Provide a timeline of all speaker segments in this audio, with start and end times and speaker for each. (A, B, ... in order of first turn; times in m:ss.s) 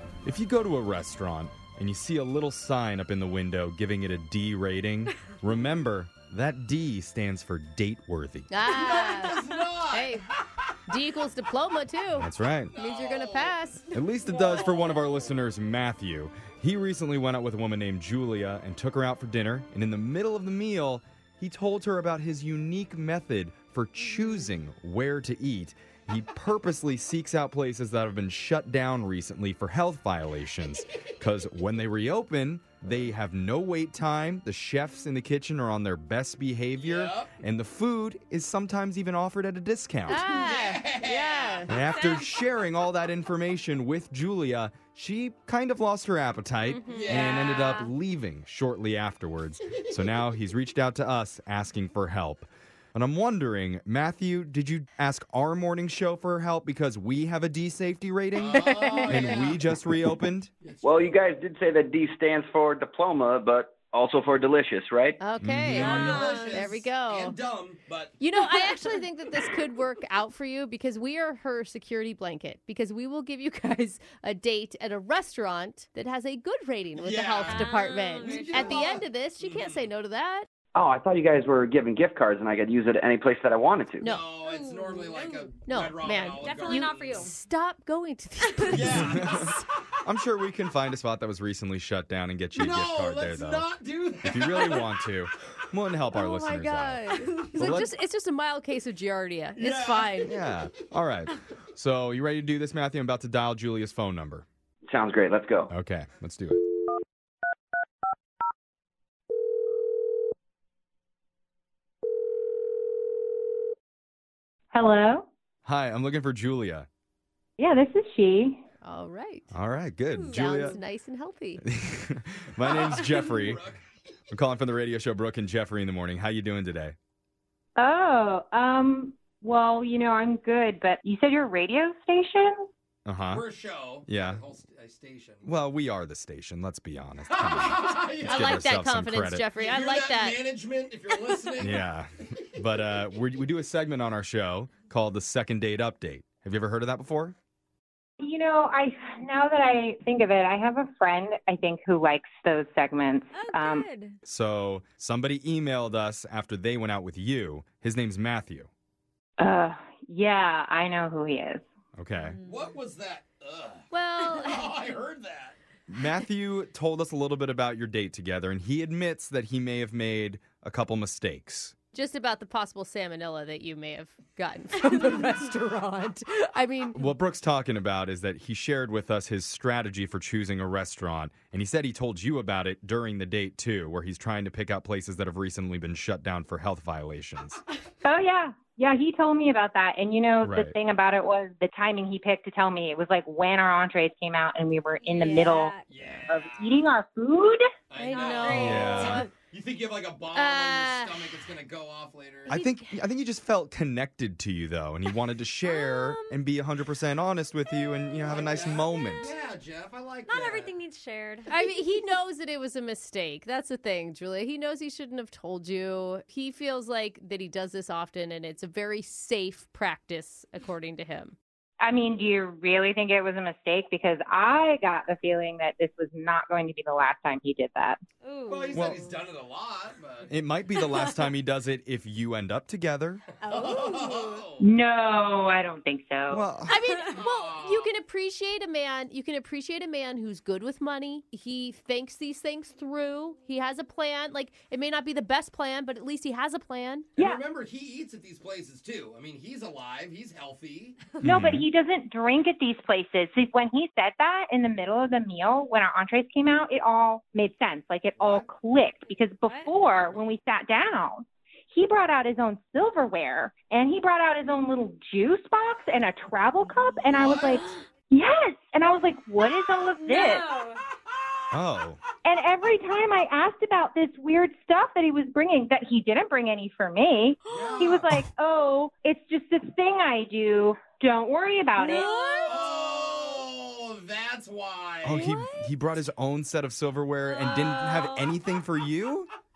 0:00.2-0:08.5 A
0:08.5-0:10.2 B
0:08.7-0:10.7 C
0:10.9-0:13.9 B
0:12.2-0:12.7 A
0:12.7-0:13.6 C
0:13.9-0:40.3 A
0:14.3-0:14.7 D
0:14.3-0:15.1 C
0:36.8-0:37.3 C
0:40.1-0:41.8 B
0:40.1-0:41.8 C
0:41.7-1:00.5 A
0:41.9-0:42.3 D
0:46.7-0:47.9 B
0:46.8-0:47.8 C
0:58.4-0:59.6 C
0:58.6-0:59.4 B
1:00.6-1:01.3 C
1:00.8-1:05.2 E
1:05.2-1:07.4 B
1:05.4-1:06.2 A
1:05.7-1:08.2 C
1:05.8-1:06.7 D
1:08.2-1:20.5 B
1:17.0-1:19.9 C
1:17.4-1:19.0 D
1:20.8-1:24.1 E
1:24.0-1:27.3 C
1:24.4-1:25.5 D
1:25.6-1:29.5 B
1:26.4-1:27.3 D
1:28.7-1:29.6 C
1:28.9-1:33.7 A
1:32.5-1:34.9 C
1:34.2-1:37.9 A
1:36.1-1:40.3 B
1:37.2-1:37.7 D
1:39.6-1:40.5 C
1:40.2-1:44.5 A
1:44.9-1:45.7 E
1:45.7-1:46.6 A
1:54.7-1:55.3 F
1:55.7-1:56.9 A
1:57.6-1:58.6 F
1:58.8-1:59.5 B
1:59.5-2:00.8 A
2:00.1-2:00.8 D
2:00.3-2:01.6 B
2:01.6-2:03.6 A
2:02.6-2:04.1 C
2:04.3-2:07.0 A
2:07.8-2:12.7 F
2:13.1-2:13.4 A
2:13.3-2:15.5 C
2:14.1-2:14.4 A
2:15.4-2:19.5 A
2:17.2-2:18.6 C
2:18.2-2:20.4 B
2:19.6-2:21.8 C
2:21.6-2:27.4 A
2:28.2-2:33.9 F
2:33.3-2:34.2 D
2:34.2-2:38.7 A
2:39.4-2:41.6 F
2:42.0-2:42.4 A
2:42.2-2:42.7 D
2:42.4-2:45.6 C
2:43.9-2:44.7 B
2:45.9-2:51.8 A
2:51.9-2:57.1 B
2:57.0-3:07.6 A
3:08.0-3:17.6 F
3:10.4-3:10.8 A
3:15.0-3:15.9 D
3:15.9-3:16.8 C
3:17.9-3:22.5 C
3:18.0-3:19.3 B
3:18.1-3:19.3 D
3:18.6-3:19.3 A
3:20.3-3:21.2 B
3:22.5-3:29.3 A
3:22.5-3:23.0 B
3:25.6-3:26.4 D
3:27.7-3:29.4 D
3:28.2-3:30.8 C
3:30.3-3:31.8 D
3:31.5-3:41.4 B
3:41.8-3:48.0 F
3:48.2-3:49.2 D
3:48.5-3:50.3 C
3:48.7-3:49.0 A
3:50.3-3:53.2 A
3:50.8-3:51.3 D
3:53.4-3:54.4 D
3:53.4-3:54.7 C
3:54.6-3:56.5 F
3:56.3-3:56.7 A
3:56.7-4:07.1 B
3:56.8-3:57.2 D
3:57.1-3:57.9 C
4:07.2-4:11.2 C
4:11.2-4:11.7 A
4:11.2-4:30.5 F
4:18.2-4:18.5 C
4:19.4-4:19.7 D
4:26.8-4:27.8 C
4:30.0-4:30.8 D
4:31.5-4:32.0 A
4:32.2-4:42.6 F
4:37.5-4:38.2 C
4:37.5-4:38.0 D
4:41.8-4:43.4 D
4:42.4-4:45.3 C
4:45.0-4:49.3 A
4:45.2-4:45.7 D
4:47.2-4:48.4 D